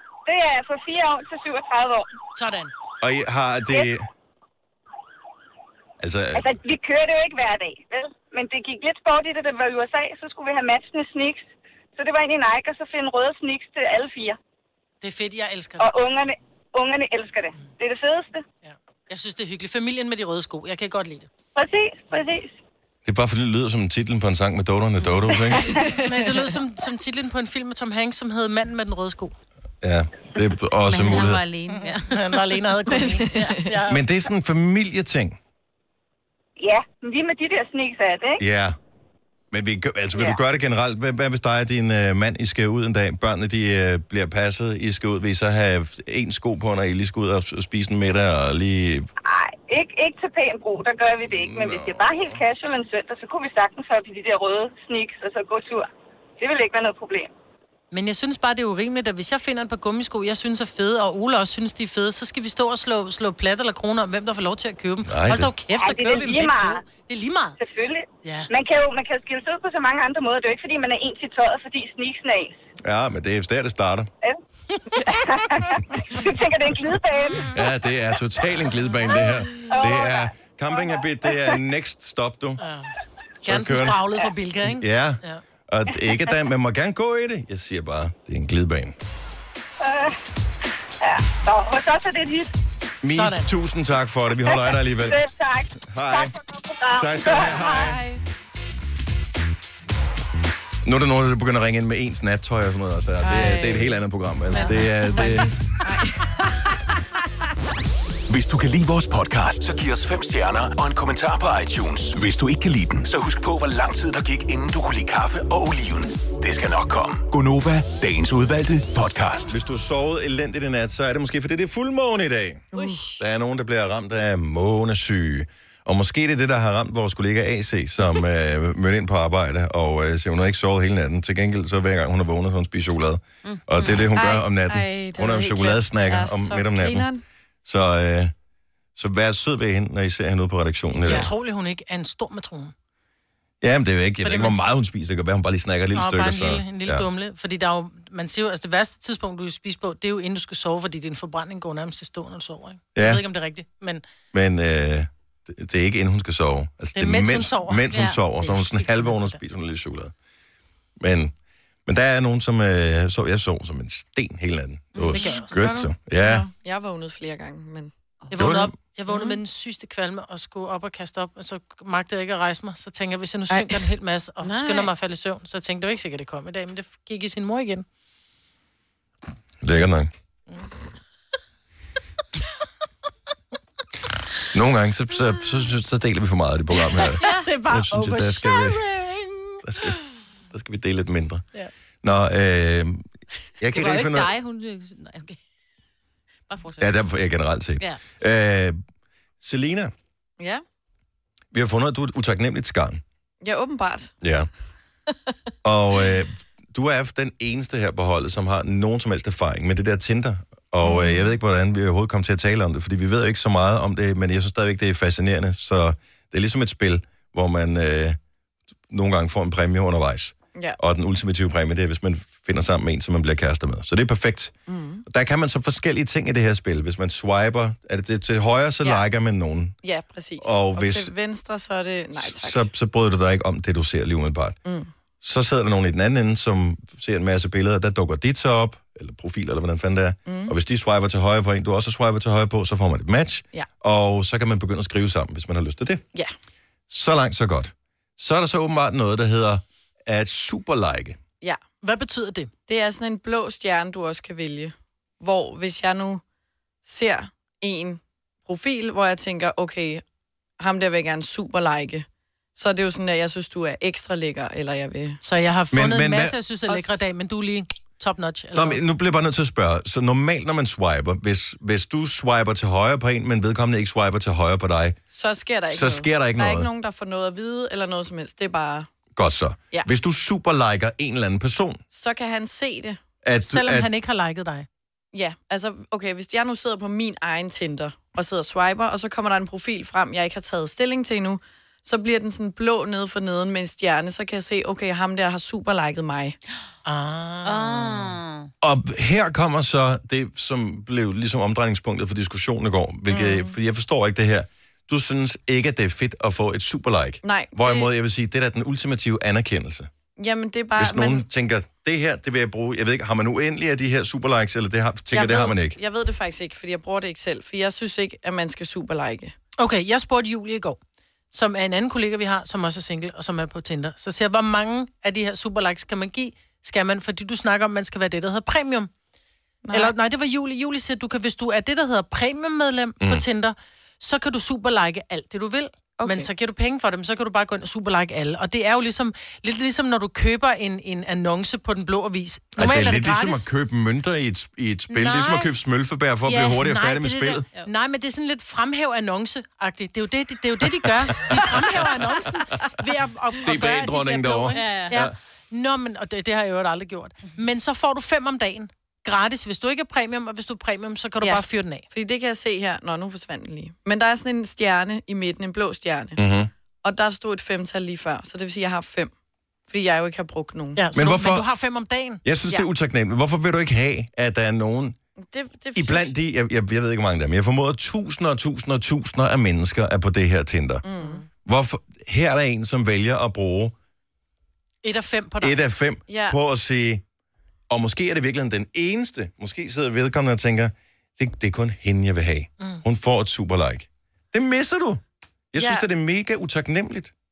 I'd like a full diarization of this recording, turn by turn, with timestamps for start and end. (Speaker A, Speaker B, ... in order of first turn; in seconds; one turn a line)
Speaker A: 0.3-2.1
Speaker B: 2.4-2.7
Speaker C: 3.0-4.1
Speaker C: 6.0-6.5
Speaker A: 6.3-11.4
Speaker A: 12.0-14.4
Speaker B: 15.0-15.9
Speaker A: 15.8-18.4
Speaker B: 18.6-21.3
Speaker A: 21.6-22.5
Speaker C: 23.1-25.8
Speaker D: 25.8-26.3
Speaker B: 25.9-29.4
Speaker C: 29.8-31.4
Speaker E: 30.9-32.2
Speaker B: 31.7-34.0
Speaker D: 32.9-33.7
Speaker C: 33.9-35.4
Speaker A: 36.6-38.4
Speaker C: 38.4-38.8
Speaker C: 39.5-49.1
Speaker A: 49.2-55.9
Speaker C: 51.3-52.4
Speaker A: 56.4-57.3
Speaker B: 57.9-67.6
Speaker C: 65.0-65.5
Speaker A: 65.7-66.8
Speaker A: 67.6-72.6
Speaker B: 68.2-68.5
Speaker C: 72.8-74.1
Speaker A: 75.0-77.6
Speaker C: 77.5-82.6
Speaker A: 79.1-81.6
Speaker B: 82.6-82.9
Speaker B: 83.4-85.4
Speaker C: 83.5-84.0
Speaker C: 84.6-89.0
Speaker A: 89.8-90.1
Speaker A: 91.0-92.5
Speaker C: 93.0-95.2
Speaker B: 93.2-93.5
Speaker A: 94.5-97.9
Speaker C: 95.9-96.3
Speaker C: 96.9-98.0
Speaker D: 97.5-98.2
Speaker C: 100.8-105.6
Speaker D: 103.2-106.5
Speaker F: 108.3-119.5
Speaker C: 119.5-137.1
Speaker D: 122.7-123.2
Speaker E: 133.4-134.2
Speaker D: 134.2-137.2
Speaker C: 137.7-138.3
Speaker C: 139.0-141.3
Speaker B: 141.0-142.7
Speaker C: 143.6-147.1
Speaker B: 144.2-144.7
Speaker B: 145.9-154.0
Speaker C: 152.9-153.2
Speaker C: 154.3-160.1
Speaker B: 157.0-159.4
Speaker E: 157.9-158.2
Speaker C: 161.0-161.3
Speaker C: 161.9-166.5
Speaker E: 164.9-165.3
Speaker B: 165.1-165.6
Speaker D: 165.5-167.9
Speaker B: 168.3-177.8
Speaker C: 168.3-168.7
Speaker D: 173.5-173.8
Speaker E: 174.4-174.9
Speaker C: 179.6-180.1
Speaker C: 184.5-188.8
Speaker B: 187.0-189.6
Speaker C: 189.6-191.4
Speaker C: 192.0-193.1
Speaker C: 193.6-194.3
Speaker E: 193.7-195.4
Speaker E: 196.5-196.9
Speaker C: 196.8-198.8
Speaker C: 199.4-199.9
Speaker C: 201.5-203.0
Speaker D: 203.4-204.1
Speaker C: 204.2-204.5
Speaker C: 205.6-218.2
Speaker D: 210.8-211.2
Speaker C: 218.9-224.6
Speaker D: 224.7-225.0
Speaker C: 225.1-229.8
Speaker D: 229.8-232.7
Speaker C: 230.4-231.1
Speaker C: 232.2-234.6
Speaker D: 234.7-234.9
Speaker C: 235.2-246.0
Speaker D: 240.3-240.5
Speaker C: 246.9-251.2
Speaker B: 251.8-252.5
Speaker D: 252.7-256.2
Speaker D: 256.8-260.0
Speaker D: 260.6-265.2
Speaker B: 265.2-268.8
Speaker C: 265.7-266.4
Speaker C: 268.5-275.0
Speaker D: 275.1-278.9
Speaker C: 275.7-276.7
Speaker C: 279.2-281.8
Speaker D: 281.9-283.0
Speaker C: 283.2-283.9
Speaker B: 283.5-284.7
Speaker D: 285.1-296.4
Speaker B: 296.9-298.2
Speaker E: 297.4-298.5
Speaker C: 298.6-309.9
Speaker D: 303.1-303.6
Speaker D: 307.2-307.9
Speaker D: 310.2-311.2
Speaker C: 310.8-315.8
Speaker D: 315.1-319.4
Speaker B: 319.6-320.8
Speaker B: 321.3-328.9
Speaker D: 329.6-329.9
Speaker B: 329.7-343.5
Speaker D: 336.0-336.3
Speaker C: 342.6-347.5
Speaker B: 344.9-345.5
Speaker B: 346.3-361.8
Speaker C: 350.9-352.4
Speaker C: 353.4-355.1
Speaker E: 354.5-355.0
Speaker D: 361.2-366.2
Speaker C: 366.2-366.5
Speaker D: 366.8-369.1
Speaker D: 369.7-370.8
Speaker B: 370.8-372.2
Speaker C: 370.9-371.5
Speaker C: 372.2-375.0
Speaker D: 375.2-376.1
Speaker C: 375.8-380.9
Speaker D: 380.8-381.2
Speaker C: 381.4-383.7
Speaker B: 384.8-385.6
Speaker C: 385.4-387.0
Speaker D: 386.1-386.4
Speaker C: 387.7-395.0
Speaker C: 395.5-397.1